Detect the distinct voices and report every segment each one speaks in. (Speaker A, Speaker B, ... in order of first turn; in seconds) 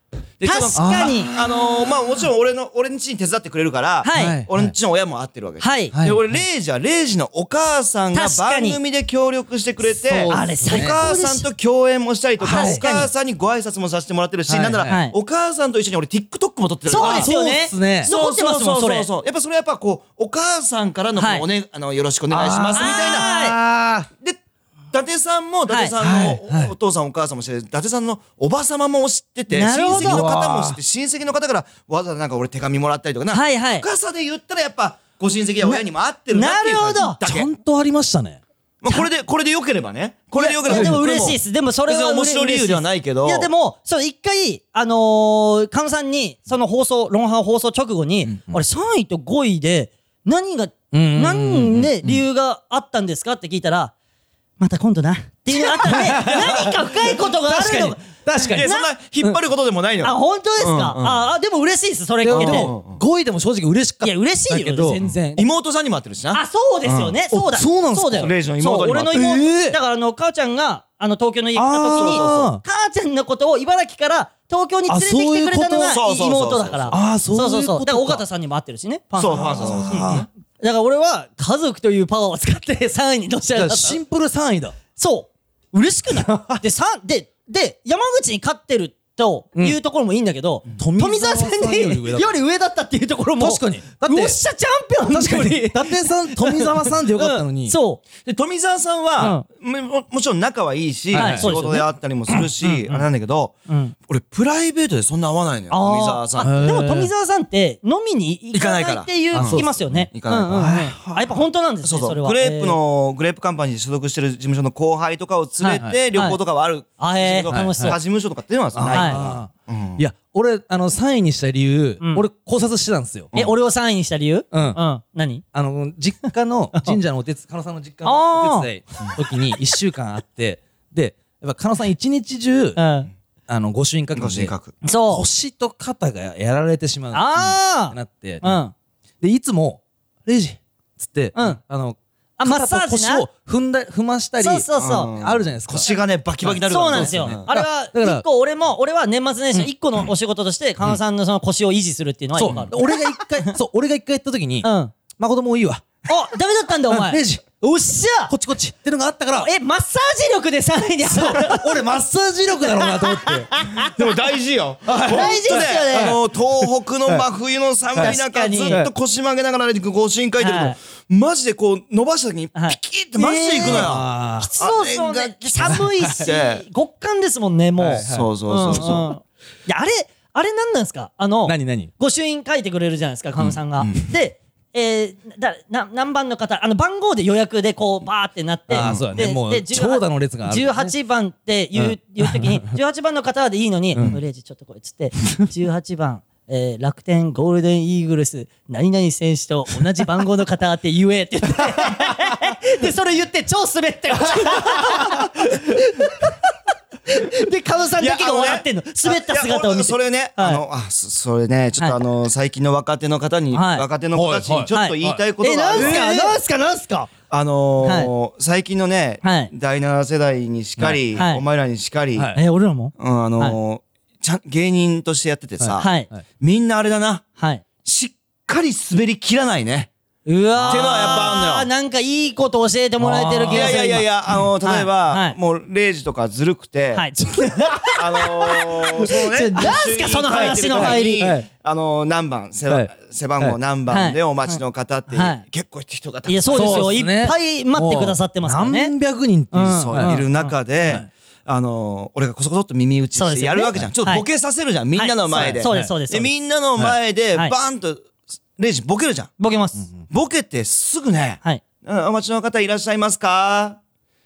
Speaker A: 0.4-17.3, 18.0-23.3, 24.9-37.5, 38.8-43.5, 58.4-61.2, 62.3-63.0, 65.3-67.2, 68.2-69.2, 71.9-72.5, 75.9-77.0, 79.2-80.3, 98.2-103.5, 104.1-106.5, 108.5-110.7, 111.8-120.0, 134.1-134.7, 144.8-147.5, 163.8-176.6, 178.0-179.1, 188.7-189.2, 208.0-216.1, 217.3-222.3, 223.0-225.9, 226.4-227.2, 227.8-229.9, 230.7-231.7, 233.5-237.1, 237.9-247.0, 249.6-259.3, 260.1-263.8
Speaker B: 0.4-1.3, 4.0-4.4, 5.6-5.9, 8.1-8.8, 10.3-11.4, 12.4-13.1, 14.9-15.1, 16.9-19.1, 21.2-21.4, 22.8-23.6, 25.7-25.9, 29.5-30.3, 33.3-33.9, 36.3-37.2, 40.3-53.9, 54.6-58.0, 58.6-58.9, 60.0-62.7, 64.0-65.4, 66.3-84.0, 85.0-98.0, 99.2-99.4, 101.1-101.9, 102.6-103.0, 103.7-103.9, 105.7-112.8, 116.1-116.4, 117.0-118.0, 118.9-119.2, 123.3-125.4, 128.0-128.7, 132.8-133.1, 134.8-135.2, 137.1-138.7, 141.3-141.6, 142.4-143.3, 144.4-145.1, 146.7-153.5, 154.6-154.9, 156.1-158.3, 159.4-161.7, 162.7-163.9, 165.1-166.2, 167.9-168.8, 170.4-170.8, 172.5-206.3, 207.1-210.6, 213.5-213.8, 214.7-217.1, 217.8-218.1, 219.2-219.5, 221.1-221.4, 222.3-223.6, 225.8-226.1, 227.4-227.6, 230.2-234.1, 234.6-235.3, 236.9-241.3, 243.9-245.4, 246.3-248.9, 249.5-250.5, 253.2-254.2, 254.9-256.3, 259.4-259.9
Speaker C: 0.7-1.2, 4.2-4.7, 5.9-6.2, 10.0-10.9, 12.4-12.9, 14.5-15.0, 16.9-18.1, 22.3-24.1, 26.0-26.7, 29.9-30.8, 37.2-38.4, 40.7-41.0, 50.9-52.1, 55.5-58.7, 62.2-65.2, 67.3-68.3, 69.1-69.8, 71.5-72.6, 74.9-75.9, 76.9-78.2, 79.3-80.2, 83.5-84.7, 86.2-86.6, 90.8-92.3, 93.4-94.4, 95.1-97.8, 101.1-101.5, 106.4-107.1, 109.3-109.8, 110.5-111.3, 115.7-116.0, 117.5-118.0, 118.7-123.3, 124.5-124.8, 125.5-132.8, 133.5-134.5, 135.1-138.6, 139.2-145.9, 146.4-148.2, 152.3-156.0, 156.9-157.4, 158.3-159.5, 161.1-163.6, 164.8-166.1, 173.6-174.5, 175.7-176.2, 177.8-179.0, 181.4-181.9, 188.7-190.9, 191.7-192.7, 214.1-215.2, 215.8-216.4, 225.6-226.2, 230.6-231.2, 233.0-234.0, 240.4-241.5, 242.7-243.6, 246.5-250.3, 255.3-255.9